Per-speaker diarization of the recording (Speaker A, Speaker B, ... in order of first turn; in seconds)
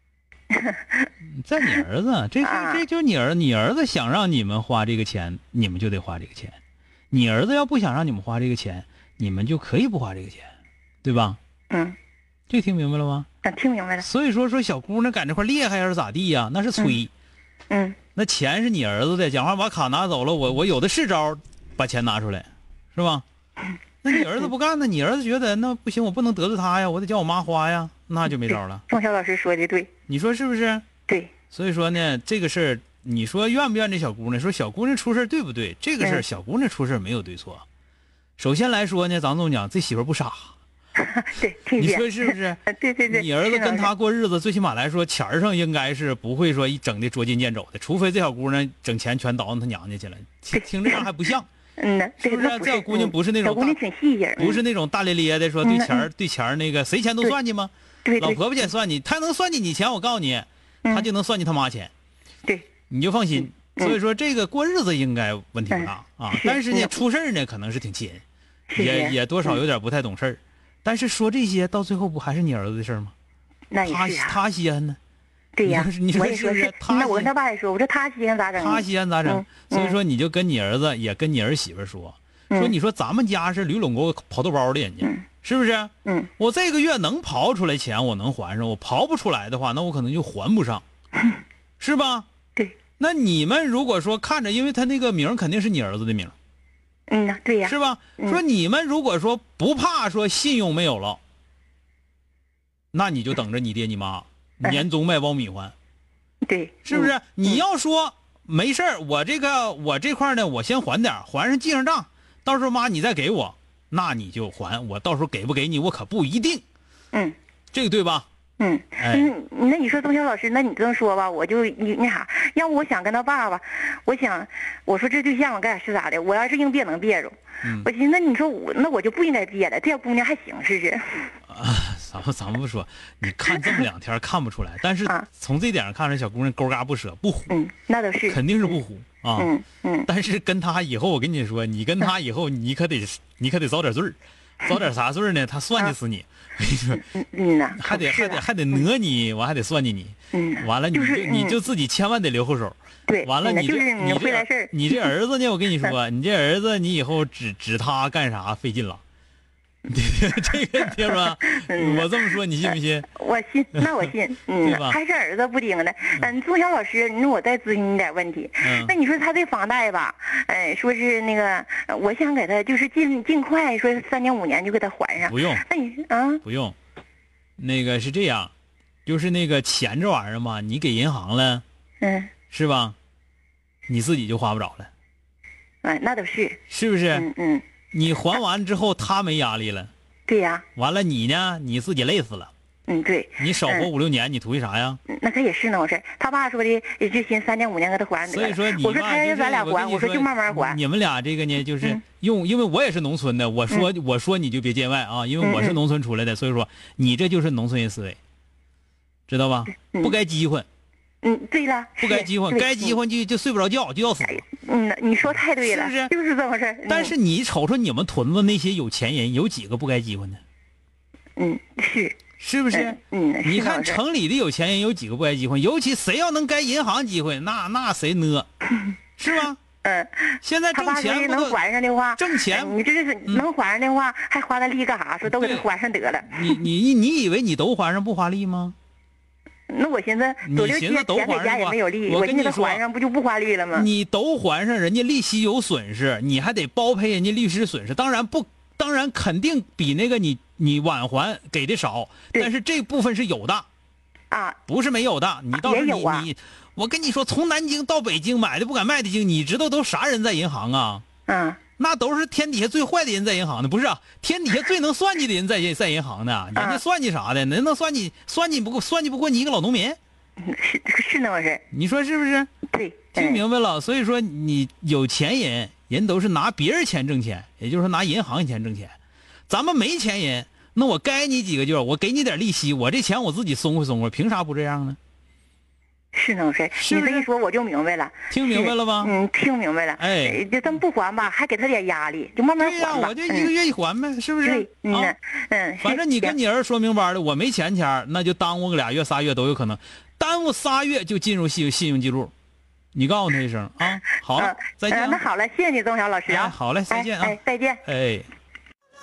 Speaker A: 0.5-1.1, 2.4-2.8, 11.7-12.0, 13.4-14.1, 17.7-18.0, 28.4-29.9, 41.0-43.9, 50.5-51.1, 51.8-54.6, 55.6-56.1, 58.0-58.4, 65.7-67.0, 68.7-69.6, 73.7-74.4, 75.6-80.0, 86.0-86.3, 97.1-98.4, 106.4-107.6, 118.6-131.3, 137.5-138.8, 139.4-140.1, 147.0-148.8, 150.3-151.6, 153.1-155.1, 160.9-162.1, 162.7-176.4, 182.0-182.3, 185.8-186.6, 187.1-187.7, 190.3-190.7, 192.9-193.9, 195.1-200.8, 205.4-205.8, 209.8-210.2, 211.2-213.0, 214.2-217.2, 221.4-222.2, 222.7-224.0, 229.8-236.7, 239.7-243.9, 254.3-254.6, 255.5-256.3, 261.3-261.6, 266.6-266.8, 270.4-271.6, 272.7-273.4, 286.1-293.5, 294.4-296.4, 304.4-307.8
Speaker B: 1.3-6.6, 7.1-10.5, 11.0-11.4, 12.5-13.3, 14.0-17.1, 18.2-23.2, 24.0-28.8, 30.1-30.9, 31.5-37.6, 38.4-40.5, 41.8-51.5, 52.2-53.8, 54.4-61.9, 62.9-68.2, 68.8-73.1, 73.8-75.0, 75.6-77.3, 78.6-90.8, 91.8-92.3, 93.0-96.3, 97.7-101.2, 102.9-105.7, 106.8-116.6, 117.7-118.3, 119.0-119.3, 127.6-127.9, 131.5-137.6, 138.3-139.5, 140.1-147.0, 147.8-159.0, 159.9-163.1, 164.6-165.0, 168.6-168.9, 175.2-175.7, 176.4-176.8, 177.6-178.5, 179.1-181.6, 182.5-182.9, 183.9-184.9, 186.7-187.3, 187.9-189.9, 190.8-192.5, 193.4-195.0, 198.2-208.2, 209.3-210.7, 212.0-214.4, 215.3-216.1, 216.9-220.4, 222.4-228.5, 229.2-229.6, 230.4-231.6, 232.2-233.5, 235.2-235.7, 236.3-238.8, 240.4-242.8, 243.7-253.7, 254.7-261.1, 261.8-270.0, 271.7-272.5, 273.1-278.9, 279.5-285.0, 286.8-287.3, 288.3-289.1, 290.0-290.4, 292.6-295.1, 295.8-302.3, 302.9-305.2, 306.3-308.3